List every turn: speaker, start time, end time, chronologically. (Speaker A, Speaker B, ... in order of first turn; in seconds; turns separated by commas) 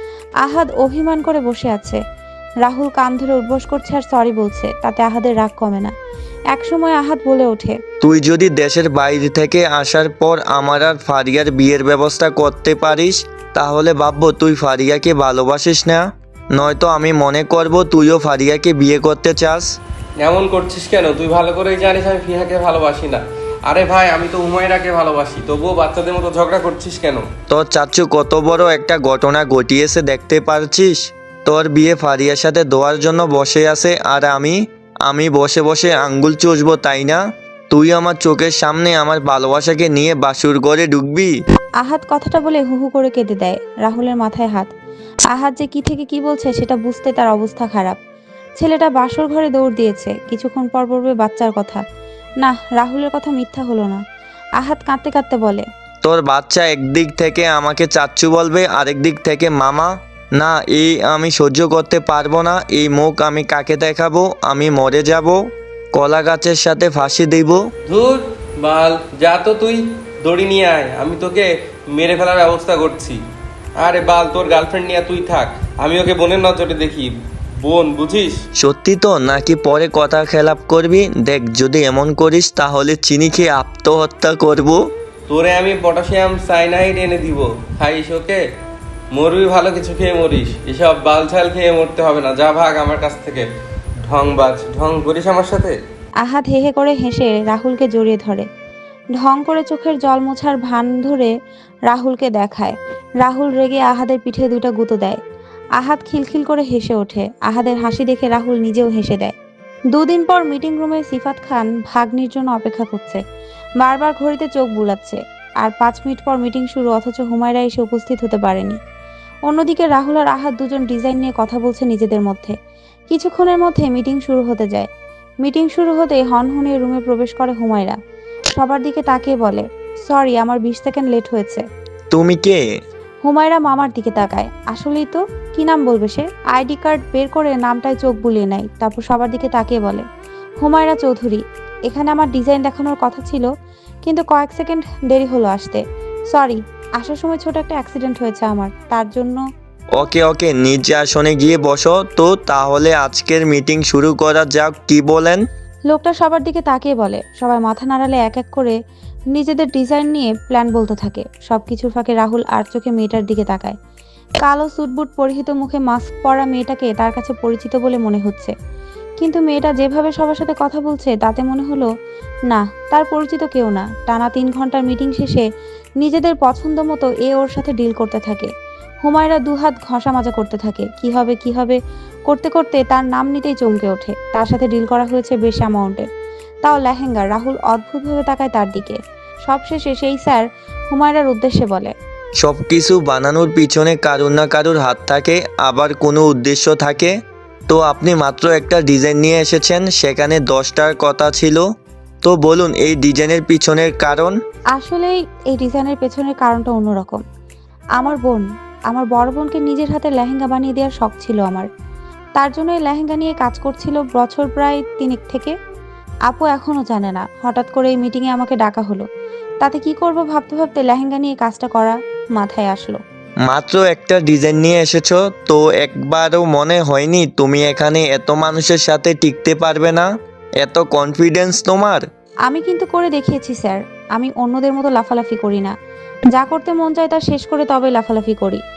Speaker A: 0.4-2.0, Speaker A: 2.6-5.9, Speaker A: 6.5-7.8, Speaker B: 8.0-19.7, Speaker C: 20.2-27.2, Speaker B: 27.5-41.3, Speaker A: 41.8-44.7, Speaker A: 45.3-48.0, Speaker A: 48.6-51.8, Speaker A: 52.4-54.0, Speaker A: 54.6-55.6, Speaker B: 56.0-65.4, Speaker B: 65.9-67.6, Speaker C: 67.9-73.2, Speaker C: 73.8-77.1, Speaker C: 77.6-78.3, Speaker B: 78.6-84.8, Speaker C: 85.3-88.4, Speaker C: 89.1-93.5, Speaker C: 94.1-95.8, Speaker A: 96.2-98.5, Speaker A: 99.2-101.3, Speaker A: 101.9-105.2, Speaker A: 105.8-109.3, Speaker A: 109.9-113.2, Speaker A: 113.8-118.8, Speaker A: 119.5-122.5, Speaker A: 123.1-124.9, Speaker A: 125.4-128.0, Speaker A: 128.6-131.6, Speaker B: 132.1-132.6, Speaker A: 133.2-140.0, Speaker A: 140.6-143.5, Speaker A: 144.0-149.4, Speaker B: 150.0-155.4, Speaker A: 155.9-158.8, Speaker A: 159.3-163.8, Speaker A: 164.4-168.5, Speaker A: 169.2-171.9, Speaker A: 172.5-175.4, Speaker A: 176.0-178.5, Speaker A: 179.0-186.1, Speaker A: 186.6-191.9, Speaker B: 192.4-197.1, Speaker B: 197.7-201.6, Speaker B: 202.2-204.4, Speaker A: 204.7-207.2, Speaker A: 208.0-211.7, Speaker A: 212.4-215.5, Speaker A: 216.3-219.1, Speaker A: 219.6-223.0, Speaker B: 223.5-230.1, Speaker B: 230.6-232.1, Speaker A: 232.5-235.7, Speaker A: 236.3-238.6